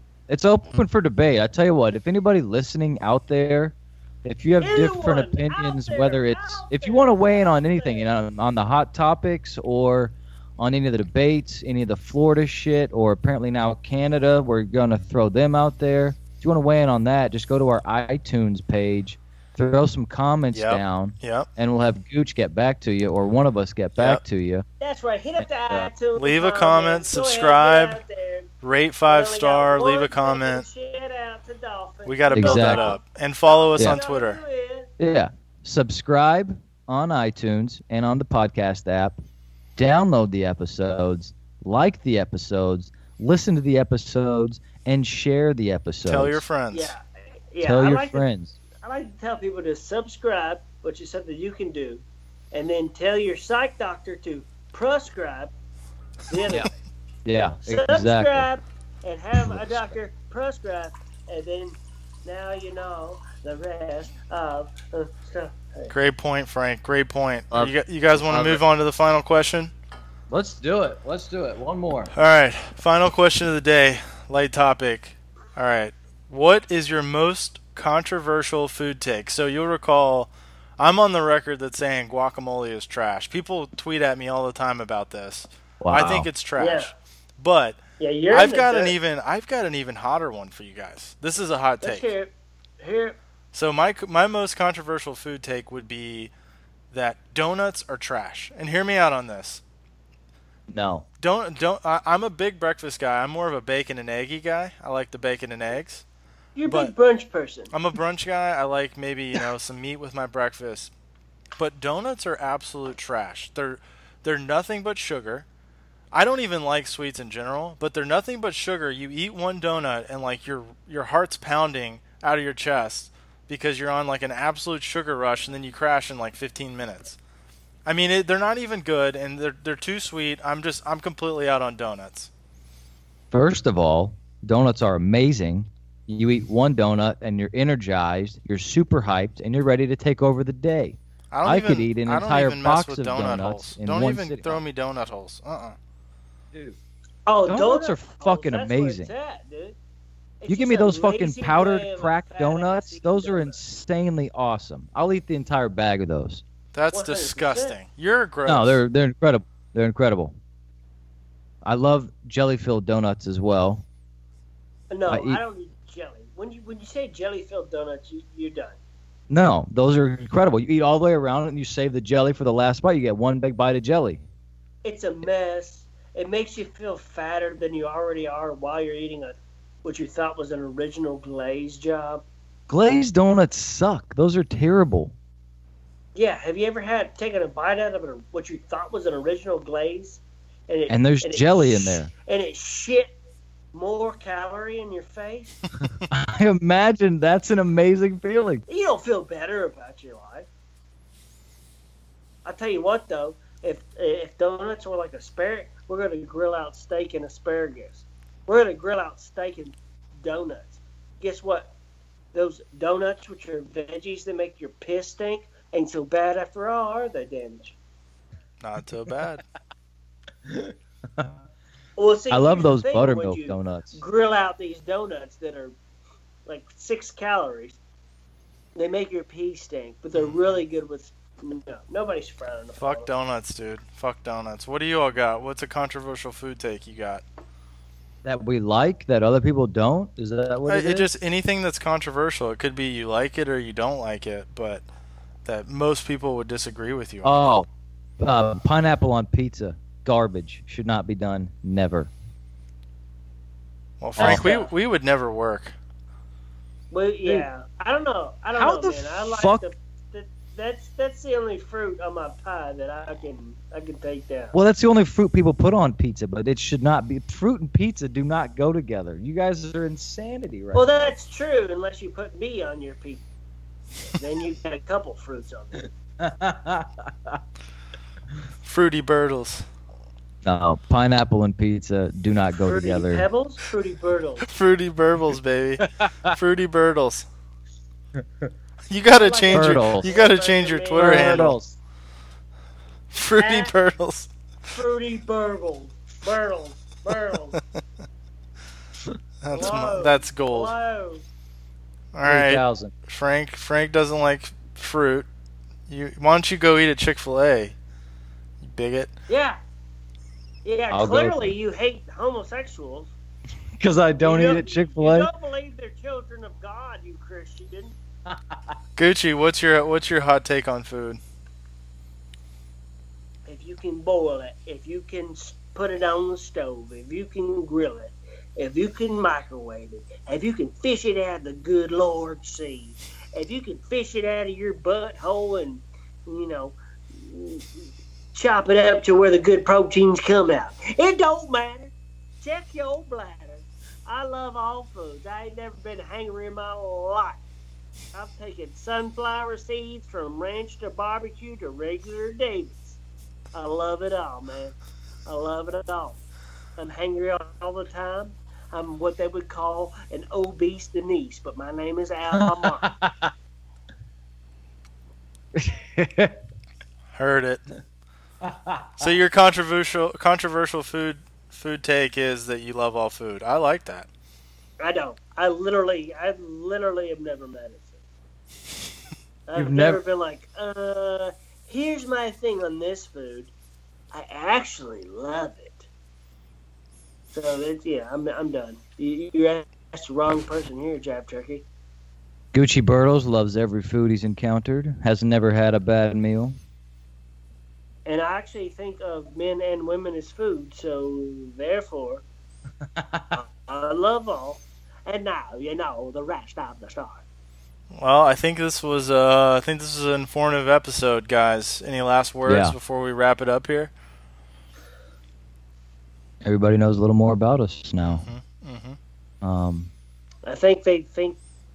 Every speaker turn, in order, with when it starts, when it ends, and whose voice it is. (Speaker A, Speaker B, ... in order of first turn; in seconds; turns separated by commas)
Speaker A: 0.3-24.6, Speaker B: 4.6-8.1, Speaker C: 20.5-21.5, Speaker C: 24.0-24.2, Speaker B: 24.8-28.5, Speaker A: 25.4-25.9, Speaker C: 26.1-28.0, Speaker C: 28.6-30.6, Speaker B: 29.1-34.9, Speaker C: 32.0-34.4, Speaker A: 32.3-32.9, Speaker A: 35.0-39.2, Speaker A: 39.8-46.4, Speaker C: 46.0-47.0, Speaker B: 46.7-48.2, Speaker A: 47.6-48.6, Speaker B: 48.8-55.5, Speaker B: 56.3-56.7, Speaker A: 57.2-58.5, Speaker B: 57.6-65.9, Speaker A: 59.4-60.0, Speaker C: 65.9-69.7, Speaker A: 67.5-68.6, Speaker A: 70.3-72.1, Speaker C: 72.1-92.1, Speaker A: 85.8-86.3, Speaker B: 86.6-86.9, Speaker B: 88.0-88.9, Speaker B: 91.8-93.2, Speaker C: 93.5-96.3, Speaker C: 96.9-99.6, Speaker A: 100.7-101.0, Speaker C: 101.2-106.0, Speaker B: 106.5-107.7, Speaker C: 106.7-106.9, Speaker C: 107.7-110.9, Speaker C: 111.6-115.5, Speaker C: 116.1-127.2, Speaker C: 127.8-132.3, Speaker A: 133.3-144.6, Speaker C: 141.3-145.8, Speaker A: 146.5-146.8, Speaker B: 147.3-149.8, Speaker A: 147.5-149.1, Speaker B: 150.4-153.6, Speaker A: 150.5-156.4, Speaker C: 156.7-158.8, Speaker B: 156.9-157.8, Speaker A: 158.4-160.3, Speaker A: 161.6-163.8, Speaker B: 164.9-168.8, Speaker A: 165.1-165.4, Speaker A: 169.3-174.2, Speaker B: 174.8-182.2, Speaker A: 182.7-185.1, Speaker B: 186.1-193.1, Speaker A: 190.9-192.1, Speaker B: 193.7-195.6, Speaker A: 196.1-198.6, Speaker B: 198.7-200.5, Speaker B: 202.4-211.7, Speaker B: 212.3-217.7, Speaker C: 218.6-219.4, Speaker A: 220.5-221.3, Speaker B: 222.0-225.7, Speaker A: 222.3-224.0, Speaker B: 226.4-227.8, Speaker B: 228.7-233.1, Speaker C: 230.1-230.5, Speaker C: 232.8-237.2, Speaker A: 238.2-241.1, Speaker C: 240.7-244.8, Speaker C: 245.4-247.4, Speaker A: 247.2-247.7, Speaker A: 248.2-252.1, Speaker C: 254.0-255.8, Speaker A: 254.2-254.4, Speaker B: 254.2-254.7, Speaker B: 256.9-264.5, Speaker A: 258.6-259.6, Speaker A: 264.5-271.1, Speaker B: 270.7-273.2, Speaker B: 274.1-275.9, Speaker A: 276.2-277.4, Speaker C: 278.6-279.7, Speaker A: 280.4-283.3, Speaker B: 282.6-284.5, Speaker C: 284.4-287.3, Speaker A: 285.8-286.3, Speaker C: 288.9-291.6, Speaker B: 289.1-291.6, Speaker A: 289.5-290.1, Speaker A: 291.0-291.8, Speaker C: 293.1-294.3, Speaker B: 293.4-293.7, Speaker B: 294.7-297.6, Speaker C: 299.4-300.7, Speaker B: 299.5-301.2, Speaker C: 302.1-305.3, Speaker A: 302.2-302.9, Speaker C: 305.9-307.7, Speaker C: 308.6-309.1, Speaker B: 309.3-309.6, Speaker B: 310.6-313.1, Speaker A: 310.9-311.5, Speaker A: 313.8-315.3, Speaker B: 314.2-317.9, Speaker A: 318.3-318.7, Speaker C: 319.0-321.2, Speaker B: 323.4-337.7, Speaker B: 338.3-347.4, Speaker B: 348.1-353.0, Speaker B: 353.5-354.7, Speaker B: 355.2-356.2, Speaker B: 356.8-362.9, Speaker A: 362.3-363.3, Speaker A: 365.5-366.4, Speaker C: 367.1-367.6, Speaker A: 368.4-369.1, Speaker C: 369.0-374.1, Speaker B: 374.8-378.0, Speaker B: 379.5-383.5, Speaker A: 379.6-380.0, Speaker B: 384.1-385.9, Speaker B: 387.3-391.6, Speaker A: 392.5-396.6, Speaker B: 398.1-402.2, Speaker A: 402.9-403.4, Speaker B: 403.3-407.2, Speaker C: 407.9-413.9, Speaker A: 412.4-412.7, Speaker A: 416.4-418.3, Speaker C: 418.0-419.0, Speaker A: 419.4-419.9, Speaker B: 420.4-421.4